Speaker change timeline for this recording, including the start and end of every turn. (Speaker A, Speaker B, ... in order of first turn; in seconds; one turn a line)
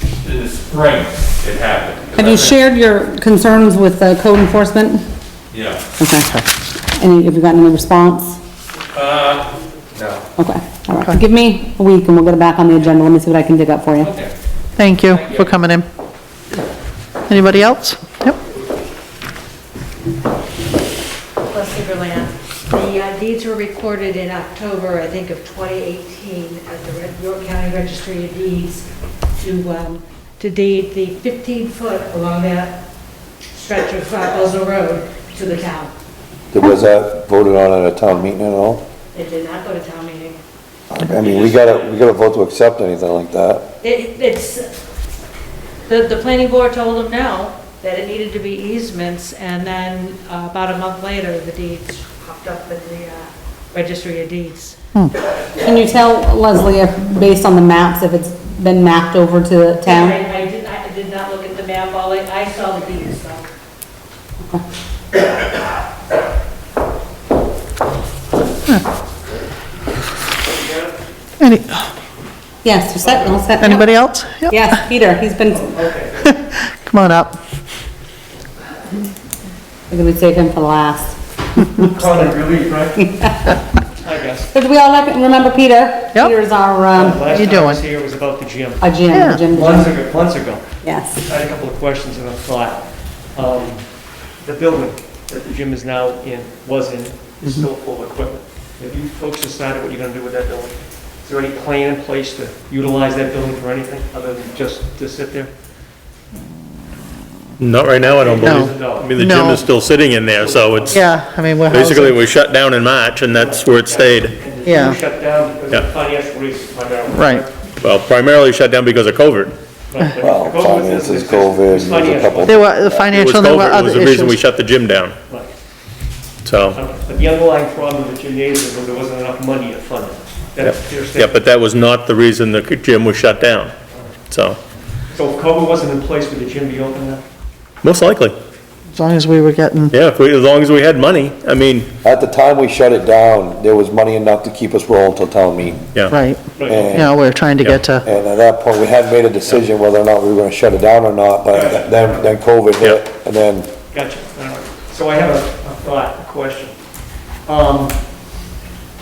Speaker A: 0.2-2.6
Speaker B: 2.1-5.0
Speaker A: 5.5-5.8
Speaker B: 6.0-6.4
Speaker B: 7.0-8.4
Speaker A: 8.9-10.2
Speaker B: 10.4-14.1
Speaker A: 14.0-14.3
Speaker C: 14.8-15.8
Speaker A: 15.1-15.5
Speaker C: 17.3-18.4
Speaker D: 21.5-32.8
Speaker D: 33.6-35.9
Speaker E: 36.5-38.8
Speaker D: 39.1-40.4
Speaker E: 40.9-43.7
Speaker A: 41.2-42.0
Speaker D: 43.8-44.7
Speaker D: 45.9-54.8
Speaker B: 55.6-60.2
Speaker D: 59.8-63.5
Speaker F: 70.5-70.9
Speaker C: 71.4-71.9
Speaker B: 72.6-75.7
Speaker F: 73.0-73.5
Speaker C: 73.6-74.7
Speaker F: 75.5-76.2
Speaker C: 76.2-77.4
Speaker B: 79.9-82.0
Speaker F: 81.8-83.0
Speaker B: 83.0-83.6
Speaker F: 84.0-84.5
Speaker B: 84.5-87.4
Speaker F: 86.9-88.8
Speaker C: 87.3-87.8
Speaker B: 88.8-89.9
Speaker C: 89.1-89.4
Speaker F: 89.5-90.7
Speaker B: 90.8-91.2
Speaker F: 91.2-93.8
Speaker F: 94.4-105.5
Speaker G: 107.6-111.1
Speaker F: 108.0-109.1
Speaker C: 108.5-109.6
Speaker F: 110.2-111.0
Speaker C: 111.0-112.2
Speaker G: 111.7-114.4
Speaker F: 113.3-117.5
Speaker C: 114.6-115.0
Speaker C: 117.2-117.5
Speaker G: 117.8-119.5
Speaker F: 119.9-122.5
Speaker E: 120.2-123.1
Speaker C: 122.5-124.4
Speaker G: 123.1-125.2
Speaker G: 126.5-126.8
Speaker F: 126.7-131.4
Speaker G: 130.6-133.7
Speaker G: 134.3-134.6
Speaker F: 135.1-137.2
Speaker G: 137.8-138.4
Speaker C: 138.9-139.9
Speaker G: 139.9-141.9
Speaker E: 142.0-145.9
Speaker C: 146.1-146.4
Speaker F: 146.6-146.9
Speaker E: 146.6-147.2
Speaker C: 146.9-148.1
Speaker E: 148.0-153.7
Speaker F: 151.5-152.2
Speaker F: 153.9-156.7
Speaker F: 157.5-158.0